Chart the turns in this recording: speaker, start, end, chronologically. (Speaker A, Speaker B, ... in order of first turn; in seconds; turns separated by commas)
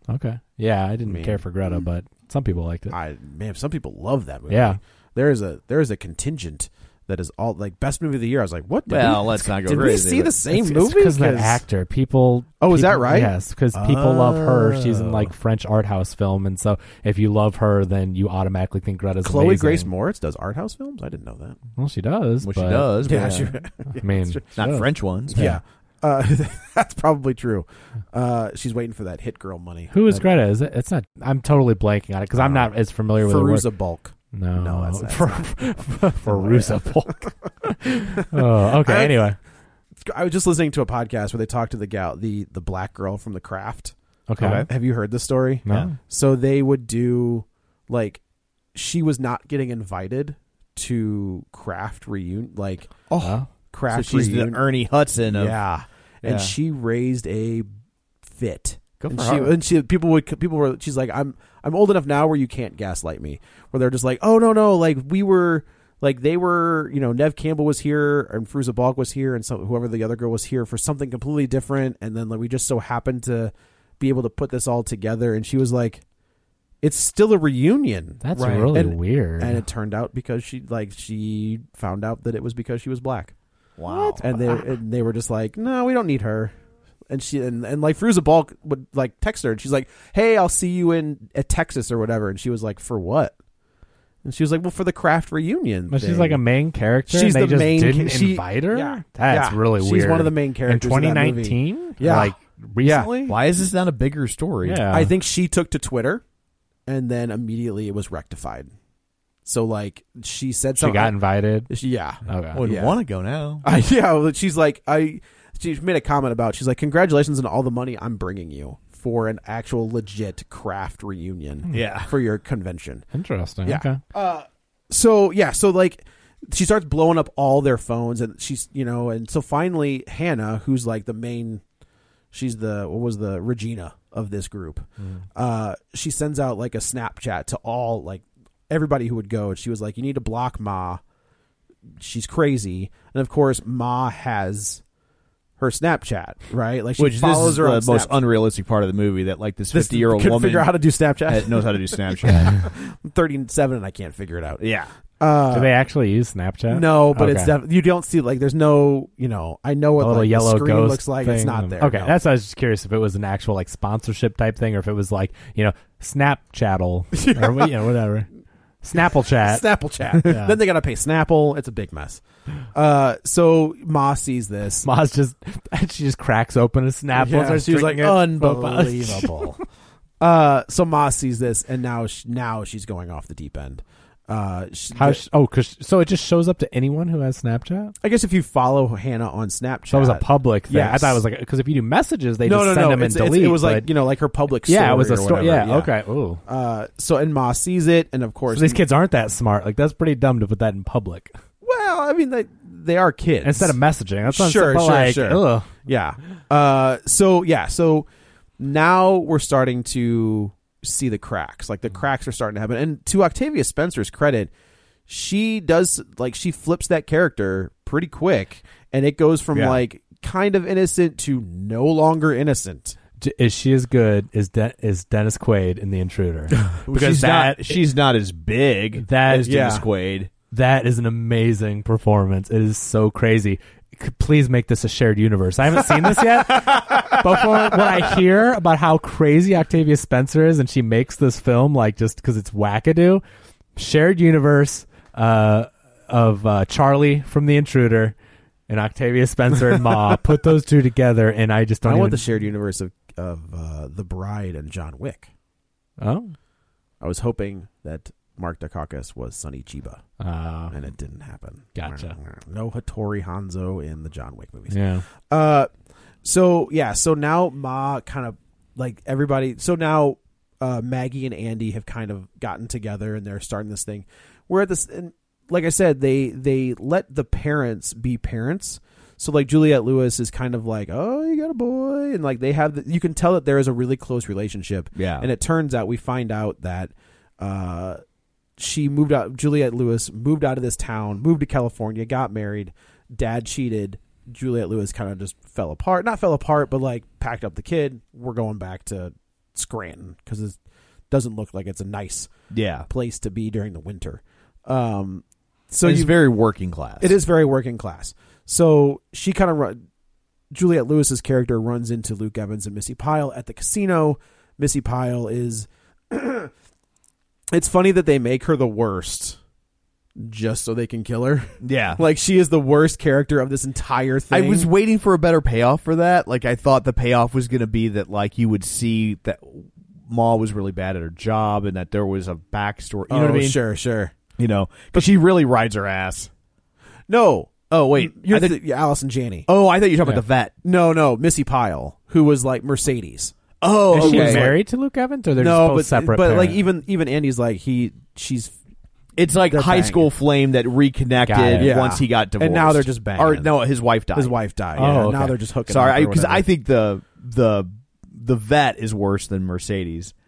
Speaker A: 0.1-3.0, Speaker B: 1.1-1.4, Speaker B: 2.9-11.6, Speaker A: 4.5-4.8, Speaker C: 8.9-10.4, Speaker A: 10.5-19.9, Speaker B: 12.6-15.2, Speaker B: 19.2-21.6, Speaker A: 21.8-22.9, Speaker C: 22.4-25.4, Speaker B: 23.0-24.0, Speaker A: 24.0-25.6, Speaker B: 25.3-30.2, Speaker A: 29.9-33.6, Speaker B: 32.4-37.3, Speaker A: 34.3-39.4, Speaker B: 38.2-39.2, Speaker B: 40.0-43.9, Speaker A: 44.3-44.7, Speaker C: 44.4-44.7, Speaker B: 44.5-48.2, Speaker A: 45.7-46.0, Speaker B: 48.7-54.6, Speaker A: 53.2-53.5, Speaker C: 53.9-55.6, Speaker B: 55.3-57.7, Speaker C: 56.2-56.6, Speaker B: 58.3-76.0, Speaker C: 59.0-59.5, Speaker B: 76.8-83.3, Speaker A: 78.2-79.6, Speaker C: 78.4-78.7, Speaker C: 83.8-84.3, Speaker A: 83.9-84.6, Speaker B: 84.2-86.5, Speaker B: 87.1-93.3, Speaker B: 94.2-96.4, Speaker A: 95.9-103.1, Speaker B: 97.1-103.4, Speaker C: 103.3-104.8, Speaker A: 104.6-105.1, Speaker B: 104.9-106.2, Speaker B: 106.9-108.7, Speaker B: 109.5-111.2, Speaker A: 110.8-111.7, Speaker B: 111.7-113.0, Speaker A: 112.3-112.6, Speaker C: 112.5-113.6, Speaker B: 113.6-123.1, Speaker C: 121.7-122.1, Speaker A: 123.1-124.0, Speaker B: 123.7-131.6, Speaker B: 132.3-141.0, Speaker B: 142.0-144.8, Speaker B: 145.6-148.2, Speaker C: 147.0-150.7, Speaker B: 149.7-154.6, Speaker C: 151.3-152.6, Speaker C: 154.6-154.9, Speaker B: 155.2-155.7, Speaker A: 155.5-157.5, Speaker B: 156.7-162.2, Speaker A: 160.0-168.3, Speaker B: 167.2-167.7, Speaker A: 168.8-170.6, Speaker B: 169.4-172.2, Speaker B: 172.7-174.9, Speaker A: 174.8-179.5, Speaker B: 177.1-179.6, Speaker B: 180.2-185.2, Speaker A: 184.9-187.9, Speaker B: 188.0-191.2, Speaker A: 189.9-193.9, Speaker B: 192.4-195.9, Speaker A: 194.7-196.4, Speaker B: 196.5-198.8, Speaker A: 198.5-201.3, Speaker B: 201.6-203.8, Speaker A: 203.4-205.8, Speaker B: 204.3-208.1, Speaker B: 208.6-214.5, Speaker B: 215.1-223.0, Speaker C: 219.5-219.8, Speaker A: 223.2-227.8, Speaker C: 226.9-230.3, Speaker A: 229.0-229.6, Speaker B: 229.4-229.8, Speaker A: 230.5-243.2, Speaker C: 236.7-237.6, Speaker A: 243.8-248.2, Speaker A: 248.7-252.2, Speaker B: 251.8-255.3, Speaker A: 256.0-256.3, Speaker B: 257.0-260.0, Speaker A: 260.2-260.8, Speaker B: 260.7-264.8, Speaker A: 261.8-262.1, Speaker A: 264.7-265.1, Speaker B: 265.3-265.7, Speaker B: 266.2-288.0, Speaker C: 285.0-285.3, Speaker B: 288.6-300.6, Speaker B: 301.1-302.3, Speaker C: 302.5-302.9, Speaker B: 302.9-306.1, Speaker C: 305.8-307.2, Speaker B: 307.0-309.8, Speaker B: 310.5-316.5, Speaker B: 317.5-319.4, Speaker B: 320.2-324.7, Speaker C: 321.6-322.0, Speaker C: 324.3-333.6, Speaker B: 333.1-334.1, Speaker C: 334.4-336.3, Speaker B: 337.1-339.5, Speaker C: 337.8-338.6, Speaker C: 339.5-340.6, Speaker B: 340.6-343.3, Speaker C: 343.6-344.5, Speaker B: 343.9-344.6, Speaker A: 343.9-346.6, Speaker B: 345.4-348.6, Speaker C: 349.2-354.4, Speaker B: 349.5-350.1, Speaker A: 351.3-351.7, Speaker B: 351.6-353.5, Speaker B: 354.1-356.5, Speaker A: 354.8-355.4, Speaker C: 355.7-360.1